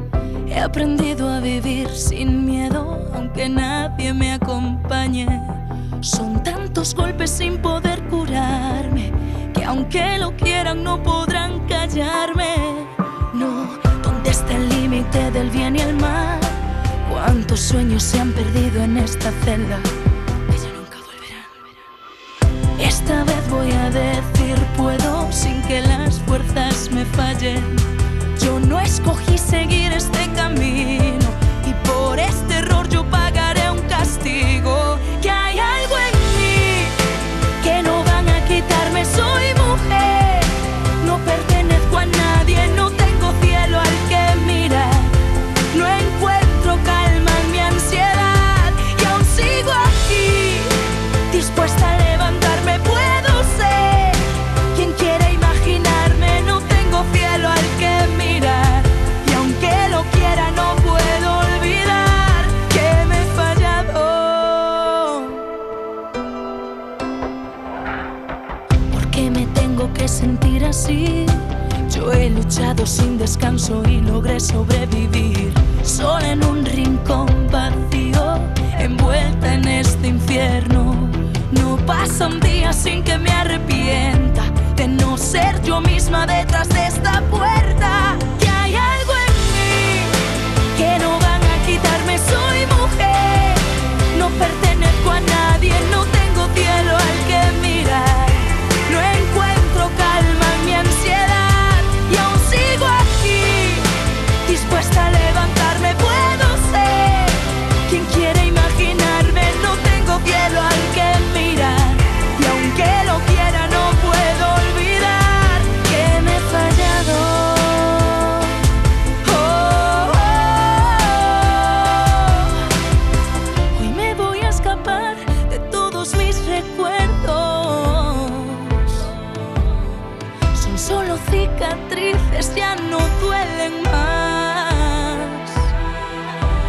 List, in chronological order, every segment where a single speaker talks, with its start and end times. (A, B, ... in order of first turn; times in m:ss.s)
0:00.5-0:19.9 A
0:20.5-0:21.6 A
0:22.8-0:27.8 A
0:28.4-0:37.0 A
0:37.6-0:45.1 A
0:45.7-0:50.7 A
0:51.3-1:05.4 A
1:08.9-1:30.2 A
1:30.7-1:43.9 A
1:44.4-1:58.6 A
1:59.2-2:02.6 A
2:03.7-2:09.6 A
2:10.5-2:15.7 A